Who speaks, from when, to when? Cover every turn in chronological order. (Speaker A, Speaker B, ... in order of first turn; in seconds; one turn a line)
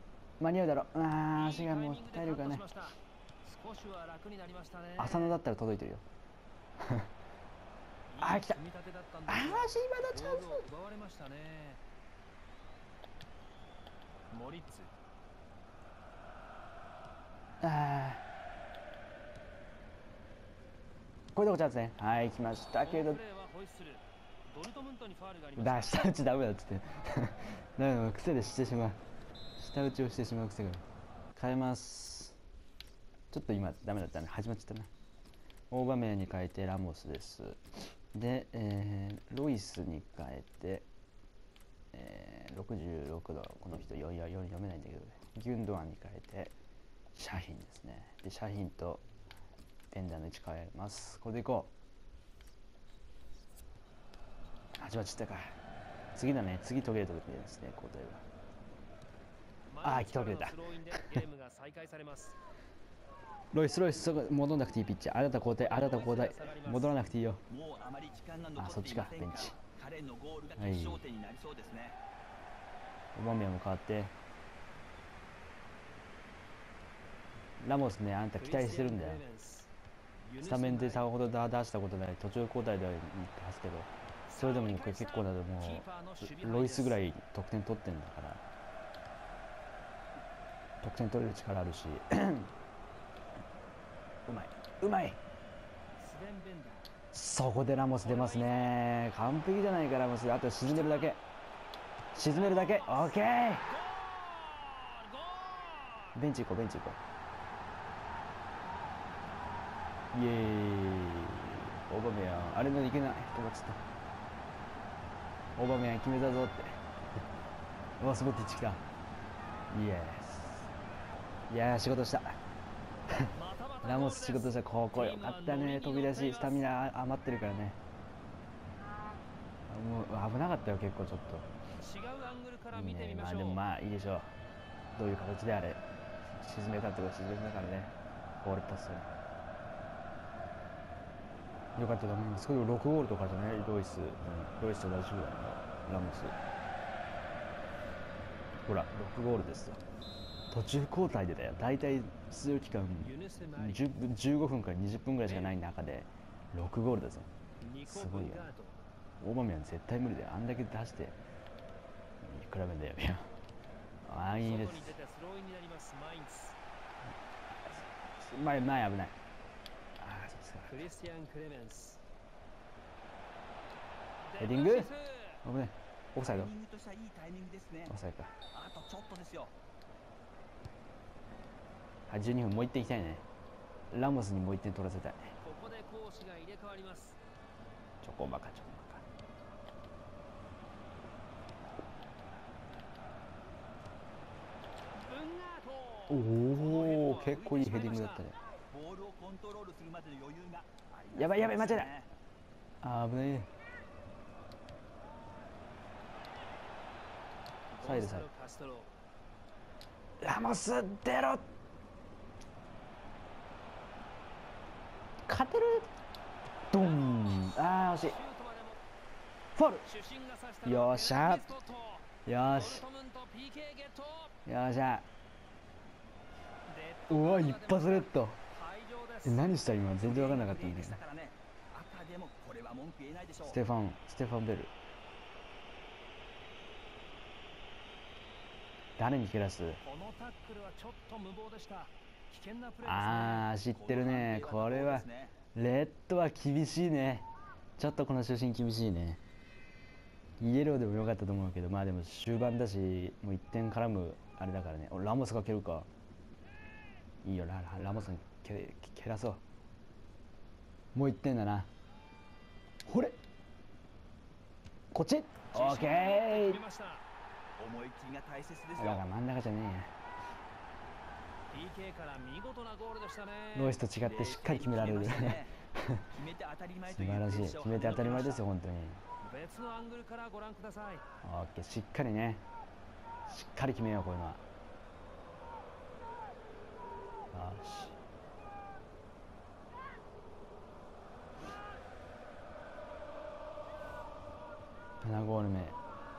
Speaker A: 0.4-2.6
Speaker B: 1.3-5.4
Speaker A: 5.0-6.0
Speaker A: 6.8-7.1
Speaker B: 8.1-11.8
Speaker A: 8.2-8.6
Speaker A: 9.3-10.7
Speaker B: 14.3-14.9
Speaker A: 17.6-18.2
Speaker A: 21.3-23.2
Speaker B: 22.8-26.1
Speaker A: 25.6-29.0
Speaker A: 29.6-30.8
Speaker A: 31.4-32.4
Speaker A: 33.3-34.9
Speaker A: 35.7-37.6
Speaker A: 38.1-40.9
Speaker A: 41.9-46.5
Speaker A: 47.1-49.0
Speaker A: 49.9-51.7
Speaker A: 54.8-55.5
Speaker A: 56.1-58.2
Speaker B: 59.7-62.4
Speaker A: 59.8-61.2
Speaker A: 63.5-67.4
Speaker B: 65.5-67.0
Speaker C: 67.5-72.0
Speaker A: 68.5-69.5
Speaker A: 70.6-71.0
Speaker A: 73.1-74.1
Speaker A: 77.6-79.2
Speaker B: 78.4-79.7
Speaker B: 80.2-81.1
Speaker A: 80.4-88.4
Speaker B: 84.3-87.0
Speaker A: 90.8-92.5
Speaker A: 94.2-95.2
Speaker B: 96.0-96.9
Speaker A: 97.1-101.2
Speaker B: 98.0-98.8
Speaker B: 100.6-101.2
Speaker A: 102.1-103.6
Speaker B: 102.2-106.2
Speaker A: 106.1-107.0
Speaker A: 110.1-113.8
Speaker A: 115.5-116.8
Speaker A: 118.0-118.8
Speaker A: 119.7-120.7
Speaker A: 121.5-122.4
Speaker B: 123.3-126.7
Speaker A: 123.8-127.8
Speaker A: 129.7-131.5
Speaker B: 131.8-133.6
Speaker A: 132.7-134.3
Speaker A: 134.9-139.1
Speaker A: 141.8-146.3
Speaker A: 148.7-149.8
Speaker A: 150.5-157.3
Speaker B: 153.0-153.8
Speaker B: 155.2-155.6
Speaker B: 157.6-158.8
Speaker A: 157.8-158.5
Speaker A: 159.2-161.2
Speaker A: 162.2-163.3
Speaker A: 164.0-164.9
Speaker B: 164.3-166.6
Speaker A: 167.6-169.2
Speaker A: 170.0-170.9
Speaker B: 170.7-172.0
Speaker B: 174.2-175.4
Speaker A: 174.4-174.9
Speaker A: 175.4-176.5
Speaker C: 176.2-177.9
Speaker A: 177.9-178.3
Speaker C: 178.5-179.5
Speaker A: 182.1-183.2
Speaker A: 183.9-185.3
Speaker B: 185.4-187.2
Speaker A: 188.0-189.0
Speaker B: 194.9-198.3
Speaker A: 196.1-198.3
Speaker C: 198.7-202.1
Speaker A: 201.1-201.9
Speaker A: 202.8-203.5
Speaker B: 207.7-208.9
Speaker A: 207.8-208.3
Speaker A: 210.2-211.5
Speaker A: 215.3-215.9
Speaker A: 216.7-218.2
Speaker B: 216.8-218.8
Speaker A: 219.5-219.9
Speaker B: 219.8-224.3
Speaker A: 220.6-221.6
Speaker A: 222.2-222.8
Speaker A: 224.4-225.1
Speaker B: 226.7-229.5
Speaker A: 227.1-228.4
Speaker A: 229.2-231.0
Speaker C: 230.0-233.6
Speaker A: 233.4-234.7
Speaker A: 239.0-239.8
Speaker B: 239.8-243.5
Speaker A: 242.8-249.2
Speaker C: 243.7-245.4
Speaker A: 250.4-255.9
Speaker A: 257.2-259.4
Speaker A: 260.9-261.7
Speaker A: 262.8-263.2
Speaker A: 264.9-266.6
Speaker B: 265.5-267.0
Speaker C: 267.6-269.0
Speaker A: 268.8-269.9
Speaker B: 271.5-273.8
Speaker A: 273.5-276.1
Speaker C: 274.0-275.5
Speaker C: 276.1-278.4
Speaker A: 276.9-279.0
Speaker B: 279.2-281.0
Speaker A: 281.2-282.4
Speaker A: 283.2-284.4
Speaker A: 287.3-288.0
Speaker A: 295.0-295.8